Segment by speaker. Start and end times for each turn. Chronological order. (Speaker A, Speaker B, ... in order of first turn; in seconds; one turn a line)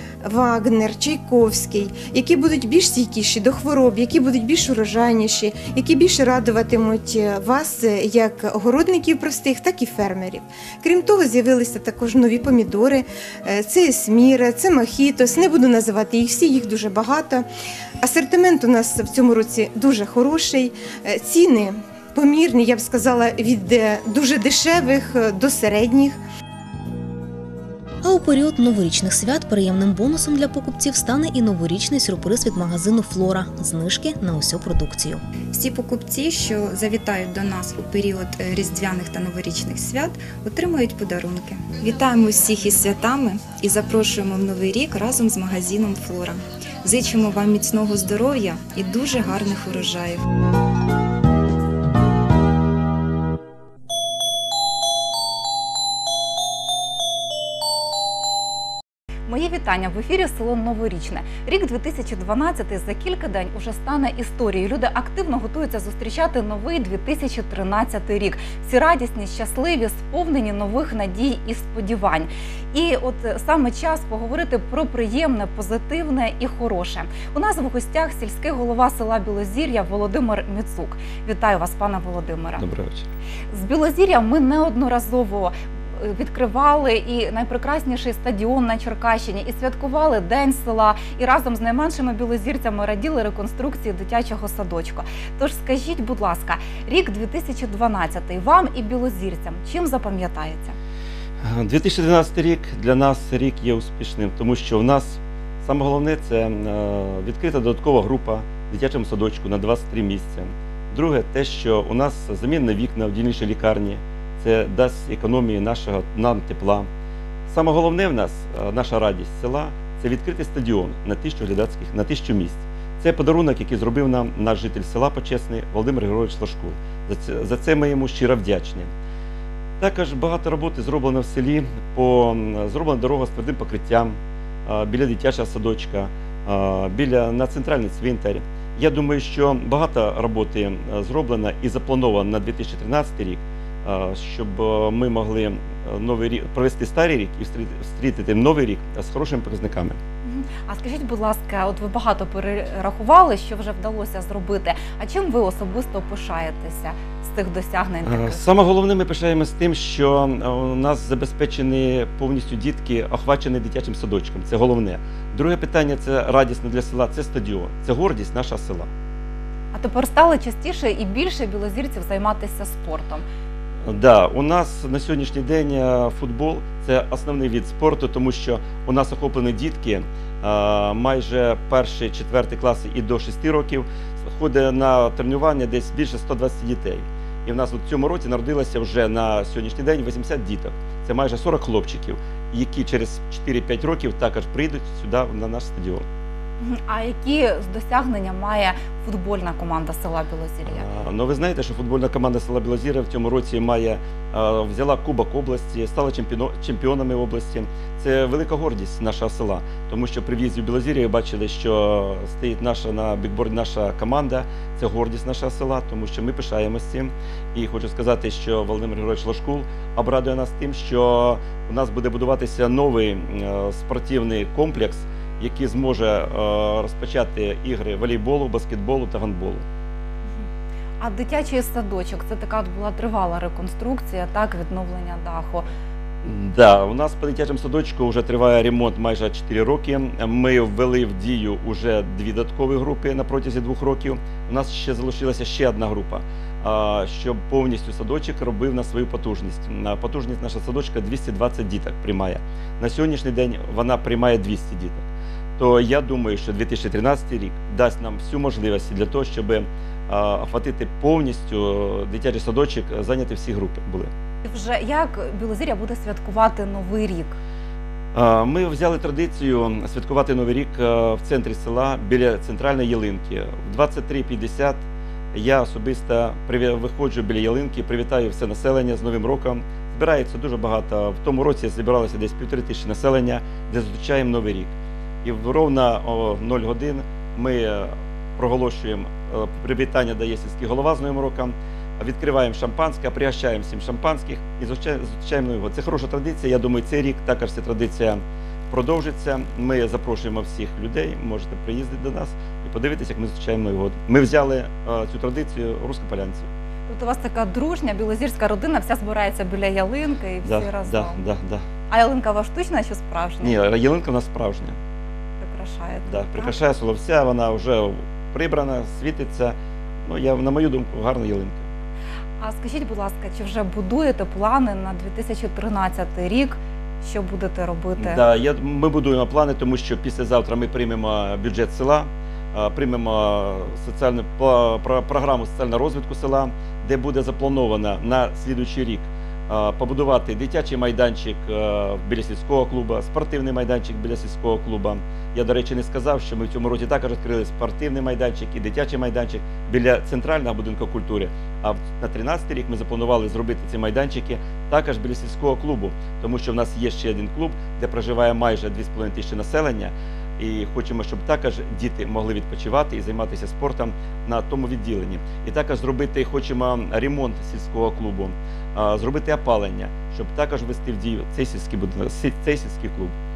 Speaker A: 0.2-17.5
Speaker A: 18.0-26.2
Speaker B: 28.0-35.2
Speaker C: 35.5-50.2
Speaker D: 59.3-82.6
Speaker E: 82.6-83.1
Speaker D: 83.5-100.8
Speaker E: 101.4-116.9
Speaker E: 117.5-128.9
Speaker E: 129.8-150.0
Speaker D: 150.2-158.4
Speaker E: 158.0-168.9
Speaker D: 169.7-173.2
Speaker E: 173.8-196.1
Speaker D: 196.6-200.9
Speaker E: 200.7-229.7
Speaker D: 231.0-235.7
Speaker E: 236.2-255.1
Speaker E: 255.6-264.1
Speaker D: 264.4-267.4
Speaker E: 268.1-306.5
Speaker D: 306.9-311.2
Speaker E: 310.4-311.6
Speaker D: 311.9-313.6
Speaker E: 313.4-314.8
Speaker D: 315.4-316.6
Speaker E: 316.1-321.7
Speaker D: 322.4-328.2
Speaker E: 328.0-373.2